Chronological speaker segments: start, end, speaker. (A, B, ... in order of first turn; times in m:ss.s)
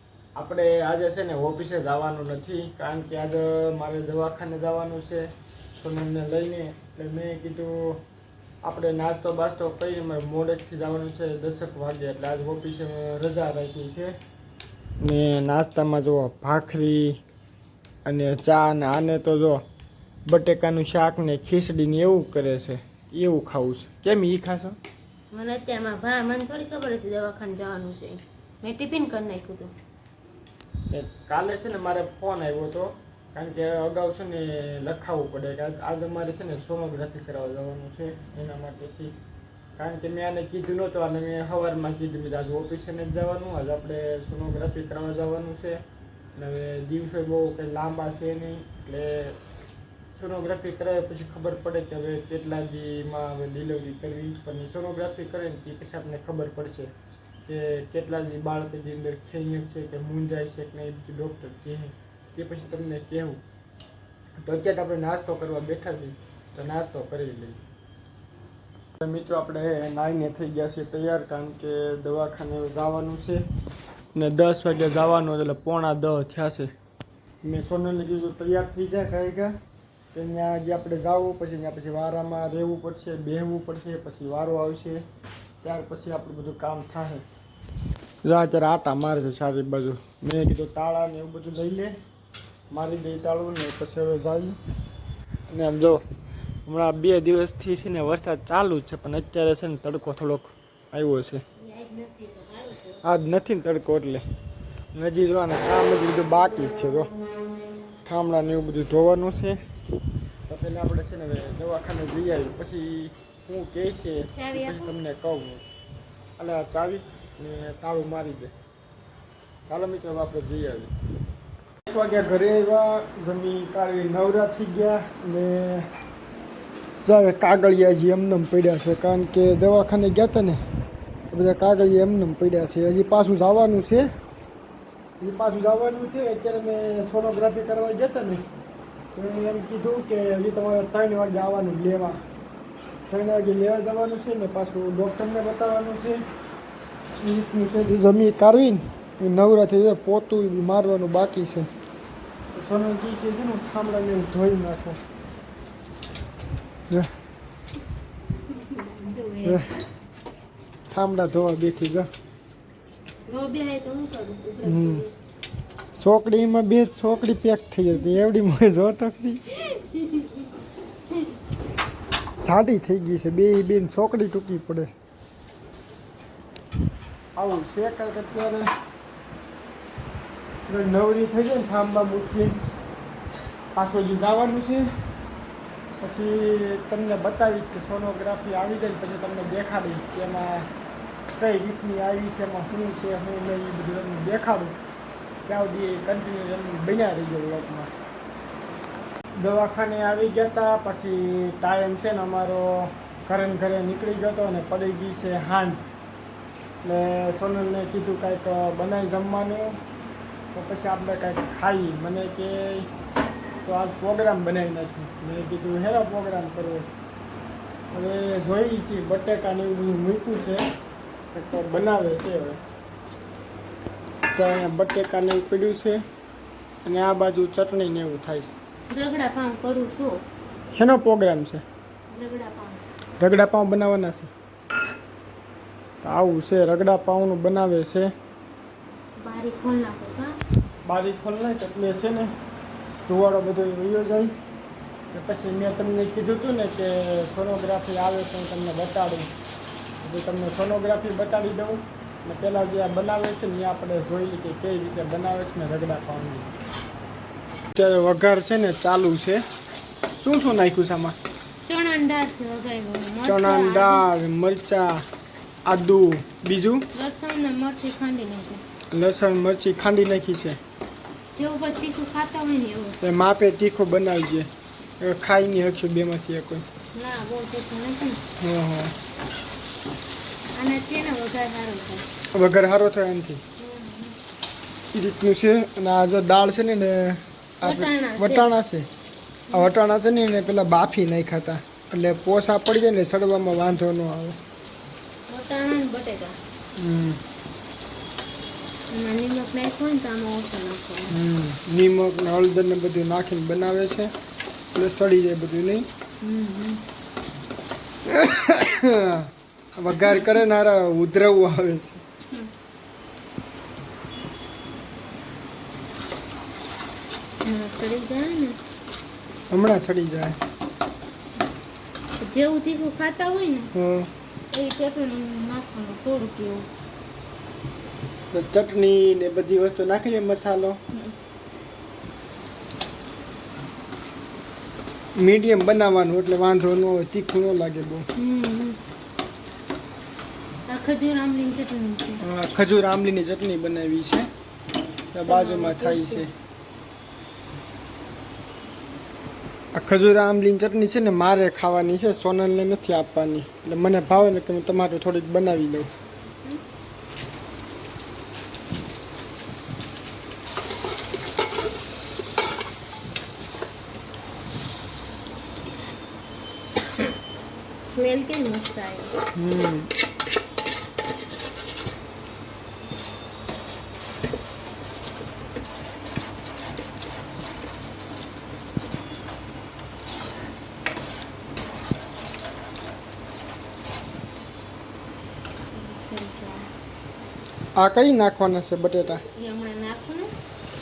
0:00.4-0:08.0 A
0:08.6-0:14.1 A
0:15.0-0:17.2 A
0:18.0-0:19.6 A
0:20.3-0:24.8 A
0:25.3-0:29.7 B
0:30.9-0:39.2 A
0:39.8-0:45.8 A
0:46.4-0:49.4 A
0:50.2-0:56.9 A
0:57.4-1:03.4 A
1:04.4-1:07.6 A
1:09.0-1:13.4 A
1:14.1-1:16.7 A
1:17.4-1:19.6 A
1:20.1-1:25.0 A
1:25.6-1:27.2 A
1:28.2-1:31.9 A
1:32.7-1:34.6 A
1:35.5-1:36.0 A
1:36.6-1:41.4 A
1:41.6-1:43.0 B
1:43.0-1:44.2 A
1:44.9-1:47.1 A
1:48.0-1:49.6 A
1:50.5-1:55.6 A
1:54.3-1:54.9 B
1:56.4-1:58.5 A
1:59.7-2:00.9 A
2:01.9-2:05.9 A
2:07.0-2:10.6 A
2:11.3-2:14.1 A
2:15.2-2:18.4 A
2:19.1-2:22.2 A
2:23.1-2:26.2 A
2:27.2-2:31.7 A
2:32.5-2:35.0 A
2:38.5-2:39.6 B
2:39.4-2:39.8 A
2:40.9-2:42.1 A
2:43.3-2:45.1 B
2:44.6-2:45.0 A
2:45.9-2:49.5 A
2:49.7-2:50.5 B
2:52.4-2:54.9 A
2:57.4-2:58.7 A
3:00.6-3:02.6 A
3:03.8-3:04.9 A
3:06.0-3:10.7 A
3:11.3-3:14.7 A
3:15.5-3:17.9 A
3:19.4-3:25.9 A
3:26.8-3:29.8 A
3:30.5-3:32.9 A
3:33.6-3:36.9 A
3:37.9-3:40.6 A
3:41.3-3:42.6 A
3:44.3-3:46.0 A
3:46.8-3:48.5 A
3:48.9-3:50.2 B
3:50.8-3:51.6 A
3:52.1-3:52.8 B
3:53.2-3:54.3 A
3:56.0-3:58.1 A
3:59.2-4:00.4 B
4:00.8-4:02.3 A
4:03.1-4:04.3 A
4:05.1-4:09.3 A
4:10.0-4:16.5 A
4:17.7-4:19.4 A
4:20.1-4:21.2 A
4:21.6-4:24.0 B
4:23.2-4:25.0 A
4:25.7-4:26.9 A
4:26.9-4:28.6 B
4:28.9-4:30.6 A
4:31.4-4:33.0 B
4:33.0-4:34.5 A
4:35.0-4:36.6 A
4:36.9-4:38.2 B
4:38.4-4:38.9 A
4:40.6-4:42.0 B
4:42.3-4:43.4 A
4:43.6-4:44.2 B
4:44.9-4:48.9 A
4:47.6-4:48.5 B
4:49.5-4:54.4 A
4:55.3-4:56.4 B
4:56.8-4:57.2 A
4:58.9-5:01.1 B
5:01.1-5:04.1 A
5:04.7-5:05.9 A
5:06.2-5:06.8 B
5:08.0-5:12.0 A
5:10.1-5:10.3 B
5:17.4-5:18.6 B
5:19.5-5:20.4 A
5:22.2-5:23.7 B
5:23.7-5:24.1 A
5:24.5-5:26.7 B
5:28.3-5:30.8 A
5:35.2-5:38.1 A
5:38.2-5:38.8 B
5:40.7-5:42.2 B
5:42.2-5:44.3 A
5:45.1-5:46.3 A
5:45.3-5:46.2 B
5:49.7-5:55.9 A
6:06.9-6:07.1 B
6:07.8-6:09.1 B
6:09.4-6:09.9 A
6:25.7-6:26.7 B
6:27.8-6:29.2 A
6:29.3-6:30.3 B